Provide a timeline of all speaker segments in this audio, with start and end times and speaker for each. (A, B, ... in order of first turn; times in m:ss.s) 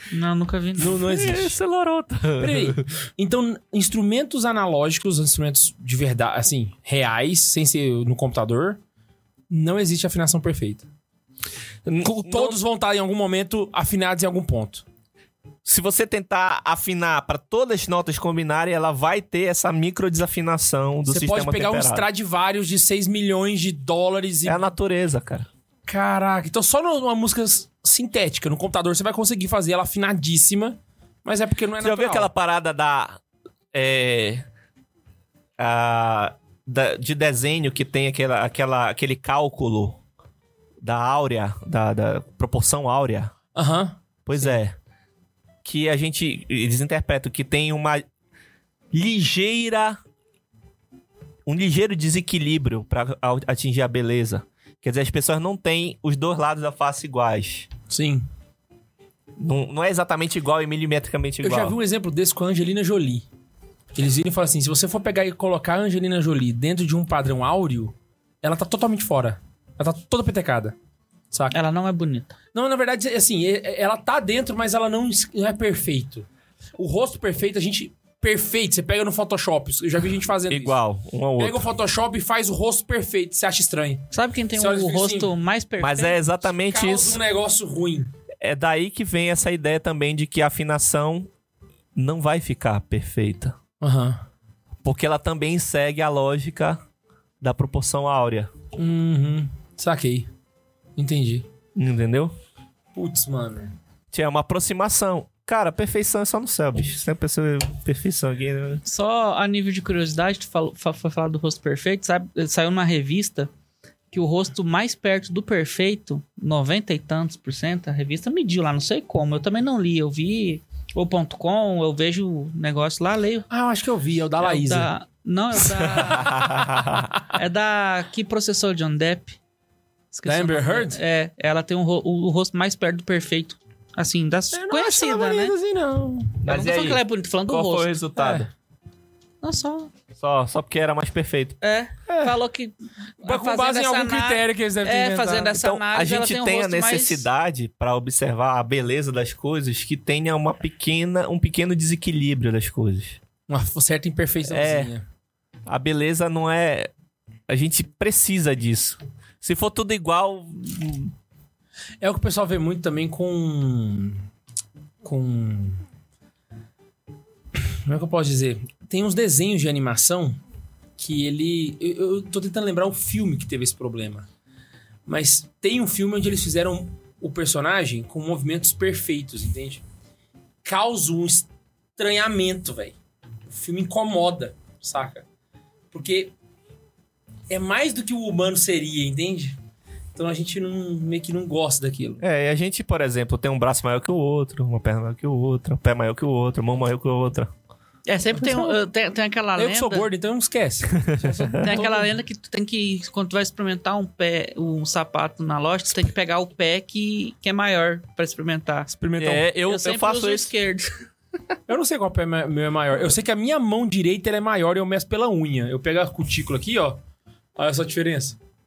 0:00.1-0:01.3 A
0:00.8-0:01.6 B
0:01.0-0:02.9 C
0:02.4-0:08.8 B
0:09.5-0:10.9 B
0:11.9-0:12.6 C
0:12.0-0:14.8 B
0:15.6-0:22.1 C
0:21.1-0:24.7 B
0:24.4-0:25.5 C
0:25.9-0:32.3 B
0:31.8-0:33.2 C
0:33.7-0:34.5 C
0:35.6-0:40.0 C
0:40.8-0:43.4 C
0:43.6-0:44.6 B
0:44.3-0:44.8 C
0:45.6-0:48.0 C
0:48.9-0:50.0 C
0:51.5-0:57.7 C
0:57.9-0:58.3 B
0:59.4-1:01.8 C
1:01.4-1:03.2 B
1:03.9-1:10.8 B
1:11.5-1:12.3 A
1:12.5-1:16.3 B
1:16.8-1:20.8 B
1:20.5-1:21.7 C
1:21.4-1:25.3 B
1:24.1-1:26.2 A
1:25.8-1:27.2 C
1:26.7-1:28.1 B
1:28.4-1:31.3 C
1:32.0-1:33.6 C
1:33.8-1:34.2 B
1:34.8-1:36.8 C
1:37.4-1:38.5 C
1:38.8-1:40.3 B
1:41.0-1:41.4 B
1:41.8-1:42.3 C
1:43.0-1:43.7 B
1:44.1-1:48.8 C
1:48.8-1:53.5 A
1:54.1-2:03.5 A
2:03.5-2:04.9 B
2:04.4-2:06.6 A
2:05.8-2:07.1 C
2:07.3-2:09.4 A
2:10.1-2:15.6 A
2:10.3-2:11.0 B
2:14.5-2:16.4 B
2:16.4-2:18.5 C
2:16.5-2:18.0 A
2:18.2-2:18.5 B
2:19.4-2:19.9 A
2:20.2-2:21.6 C
2:21.6-2:27.3 A
2:22.1-2:22.4 B
2:23.2-2:25.6 B
2:25.5-2:33.2 C
2:33.5-2:35.0 B
2:34.5-2:34.9 C
2:35.7-2:36.9 C
2:37.5-2:41.1 C
2:42.0-2:44.2 B
2:45.0-2:45.8 B
2:47.6-2:50.4 B
2:51.0-2:54.3 B
2:55.1-2:59.8 B
3:00.6-3:03.0 B
3:03.5-3:05.2 B
3:05.9-3:06.3 B
3:07.5-3:09.6 B
3:10.2-3:12.2 B
3:12.2-3:17.5 C
3:18.1-3:20.1 A
3:18.4-3:18.8 B
3:19.6-3:22.1 B
3:21.0-3:21.7 C
3:21.6-3:28.9 A
3:28.9-3:29.5 B
3:29.2-3:30.5 C
3:29.7-3:31.0 A
3:31.7-3:37.0 B
3:37.6-3:38.4 B